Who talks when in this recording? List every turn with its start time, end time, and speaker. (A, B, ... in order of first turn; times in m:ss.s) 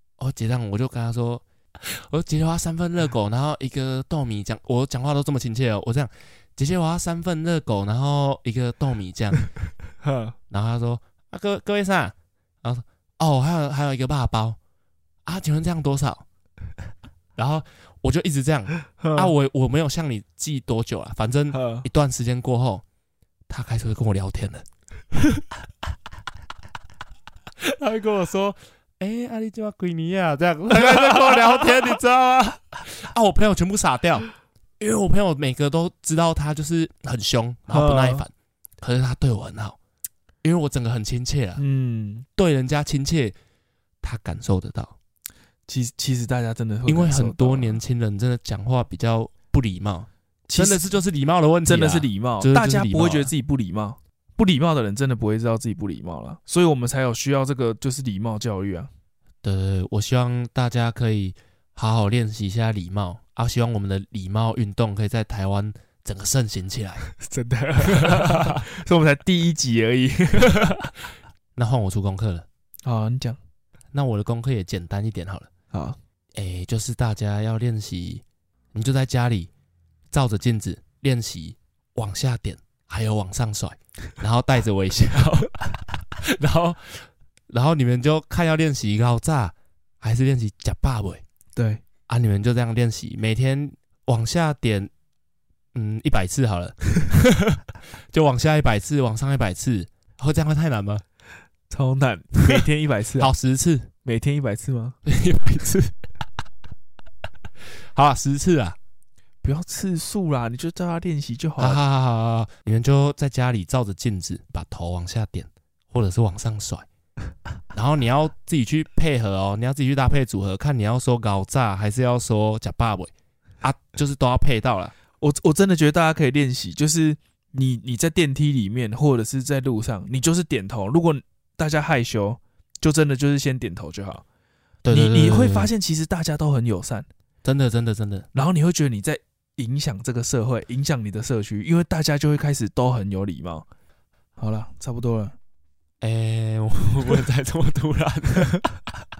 0:00.2-0:09.5 A
0:10.0-0:10.3 B
0:10.5-0:14.6 A
0:15.2-0:16.2 A
0:17.4-0:22.8 A
0:19.0-0:19.3 B
0:21.5-0:21.8 B
0:23.5-0:24.6 A
0:27.6-0:34.3 A
0:30.9-0:31.6 B
0:34.8-0:39.8 A
0:37.7-0:38.2 B
0:40.4-0:41.6 A
0:41.6-0:42.2 B
0:42.4-0:43.3 A
0:44.0-0:44.9 A
0:45.7-0:47.8 B
0:46.8-0:53.3 A
0:50.5-0:50.8 B
0:51.6-0:58.9 B
0:59.4-1:07.1 A
1:07.2-1:10.9 B
1:07.9-1:08.5 A
1:11.5-1:12.4 A
1:12.8-1:13.4 B
1:13.9-1:15.5 A
1:15.7-1:16.0 B
1:16.3-1:19.5 A
1:20.1-1:31.2 A
1:31.6-1:31.8 B
1:32.1-1:34.9 A
1:35.7-1:41.0 A
1:41.7-1:43.3 B
1:43.2-1:43.9 A
1:44.0-1:45.0 B
1:45.0-1:46.0 A
1:47.9-1:48.8 A
1:49.4-1:51.8 B
1:51.6-1:56.8 A
1:57.7-2:03.1 A
2:03.6-2:04.9 A
2:05.2-2:14.2 B
2:14.8-2:15.7 A
2:14.9-2:17.1 B
2:17.4-2:18.3 A
2:18.3-2:23.6 B
2:24.4-2:25.3 B
2:26.0-2:28.6 A